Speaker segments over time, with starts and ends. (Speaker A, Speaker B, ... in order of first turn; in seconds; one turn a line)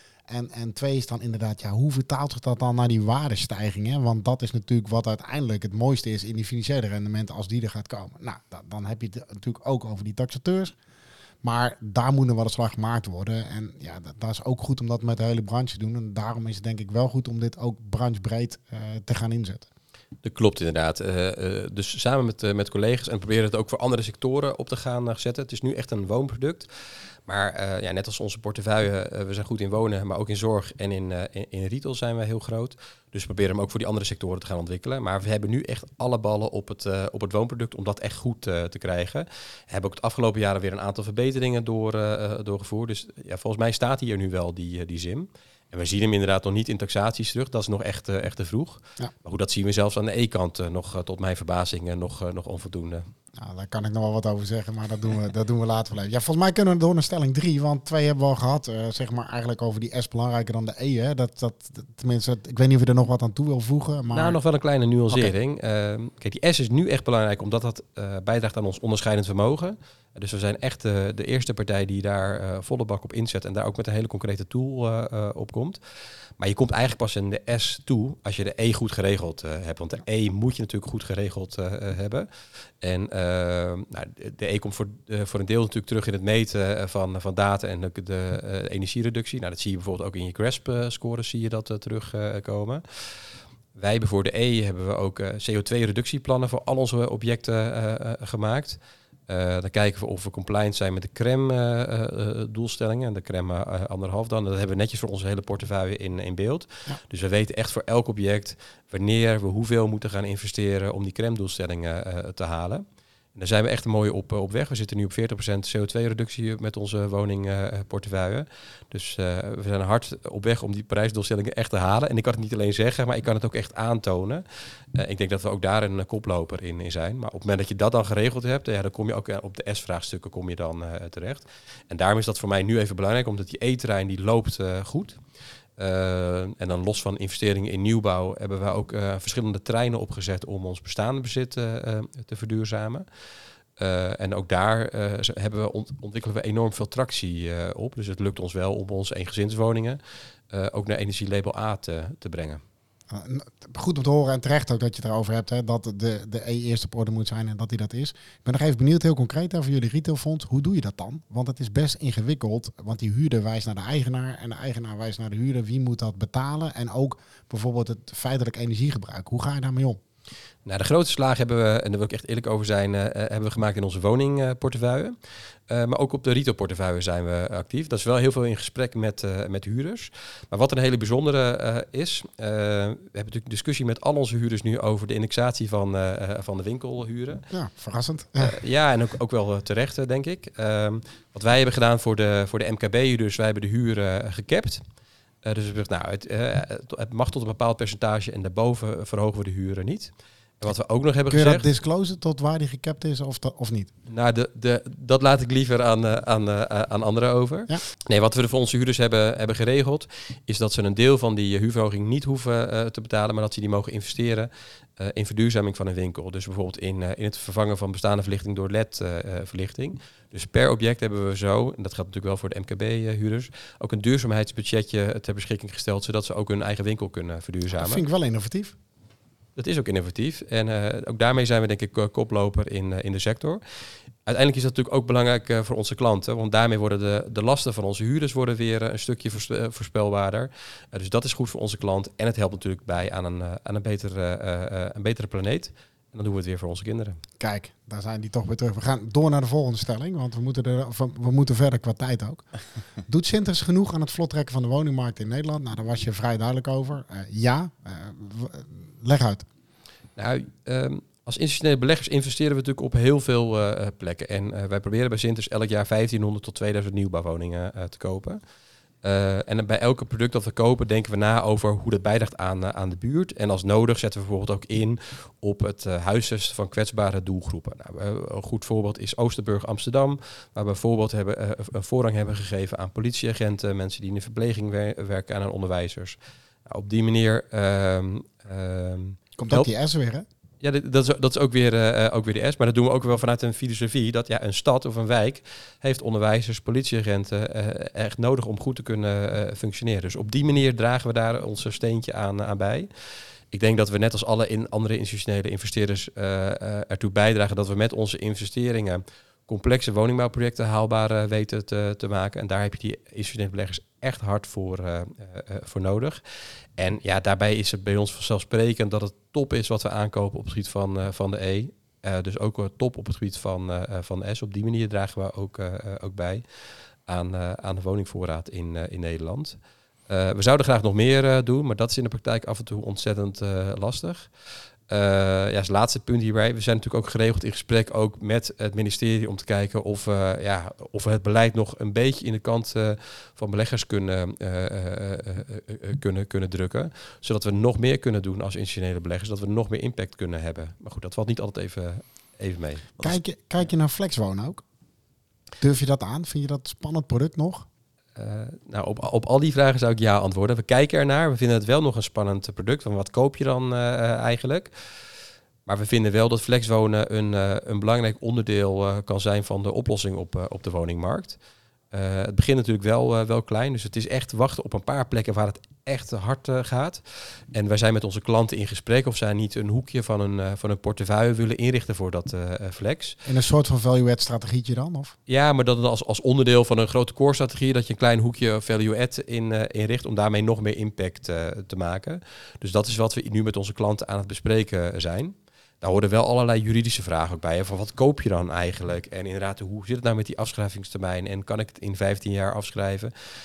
Speaker A: 0.3-10.7
Speaker A: 11.4-19.7
Speaker B: 20.2-26.7
Speaker B: 27.3-53.0
Speaker A: 53.4-64.4
Speaker B: 64.1-75.8
Speaker B: 76.4-82.3
Speaker B: 82.8-92.8
Speaker B: 93.7-98.8
Speaker B: 99.3-112.8
Speaker B: 113.3-124.4
Speaker B: 124.9-135.2
Speaker B: 135.8-143.0
Speaker B: 143.8-150.0
Speaker B: 150.5-152.6
Speaker A: 153.1-170.0
Speaker B: 170.6-175.2
Speaker B: 175.7-187.4
Speaker A: 187.5-188.6
Speaker B: 188.4-194.8
Speaker B: 195.4-201.7
Speaker A: 201.3-203.9
Speaker B: 204.1-228.0
Speaker A: 227.7-228.7
Speaker B: 229.6-233.6
Speaker B: 234.2-247.2
Speaker A: 247.4-252.4
Speaker A: 253.1-259.4
Speaker B: 260.2-268.4
Speaker B: 269.0-289.7
Speaker A: 289.4-290.2
Speaker B: 290.6-302.9
Speaker B: 303.5-316.2
Speaker B: 316.8-326.4
Speaker B: 327.1-329.6
Speaker B: 330.1-334.3
Speaker B: 334.9-352.9
Speaker A: 353.0-354.6
Speaker A: 355.6-357.7
Speaker B: 358.1-364.7
Speaker B: 365.6-371.4
Speaker B: 371.9-377.0
Speaker B: 377.5-383.2
Speaker A: 383.2-385.1
Speaker B: 385.3-403.1